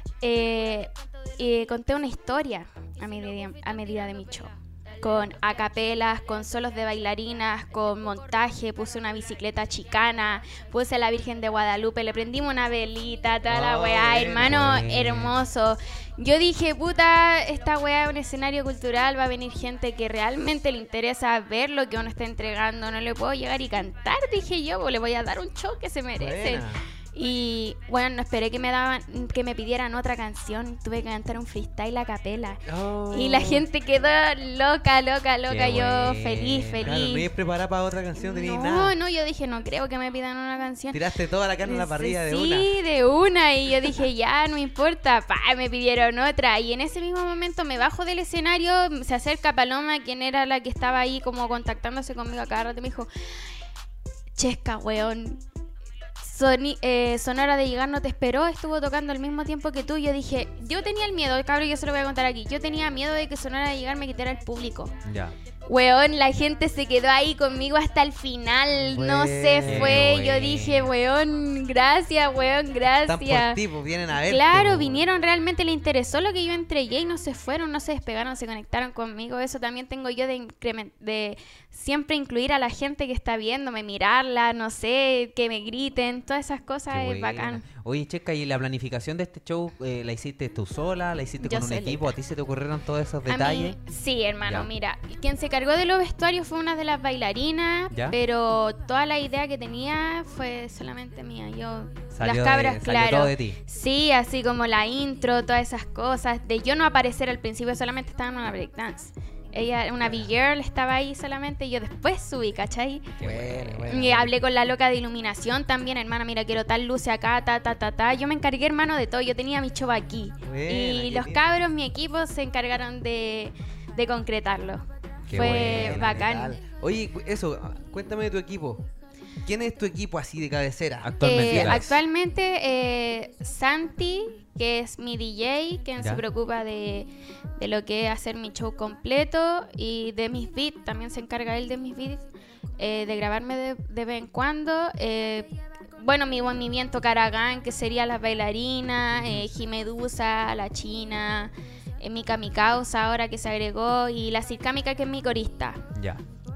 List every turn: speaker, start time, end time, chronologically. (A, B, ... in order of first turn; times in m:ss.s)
0:00.2-0:32.6 A
0:13.5-0:14.6 B
0:14.4-0:15.4 C
0:26.2-0:26.8 B
0:32.7-0:33.6 B
0:33.1-0:37.2 A
0:35.5-0:36.9 C
0:36.8-0:38.9 B
0:38.2-0:41.0 A
0:40.9-0:42.7 B
0:41.6-0:53.1 A
0:54.4-0:55.4 A
0:56.2-1:04.9 A
1:05.0-1:05.4 C
1:05.7-1:13.6 A
1:08.8-1:10.0 B
1:09.6-1:10.9 C
1:13.0-1:15.0 B
1:14.2-1:27.6 A
1:26.9-1:33.8 C
1:31.4-1:32.1 A
1:33.3-1:53.0 A
1:42.1-1:43.6 C
1:53.2-1:53.8 C
1:53.2-1:54.3 B
1:53.9-2:06.6 A
2:00.4-2:01.6 B
2:05.3-2:06.2 C
2:05.3-2:08.9 B
2:09.4-2:12.0 B
2:11.0-2:11.8 C
2:11.2-2:22.2 A
2:22.8-2:25.5 A
2:26.0-2:35.8 A
2:35.9-2:36.2 C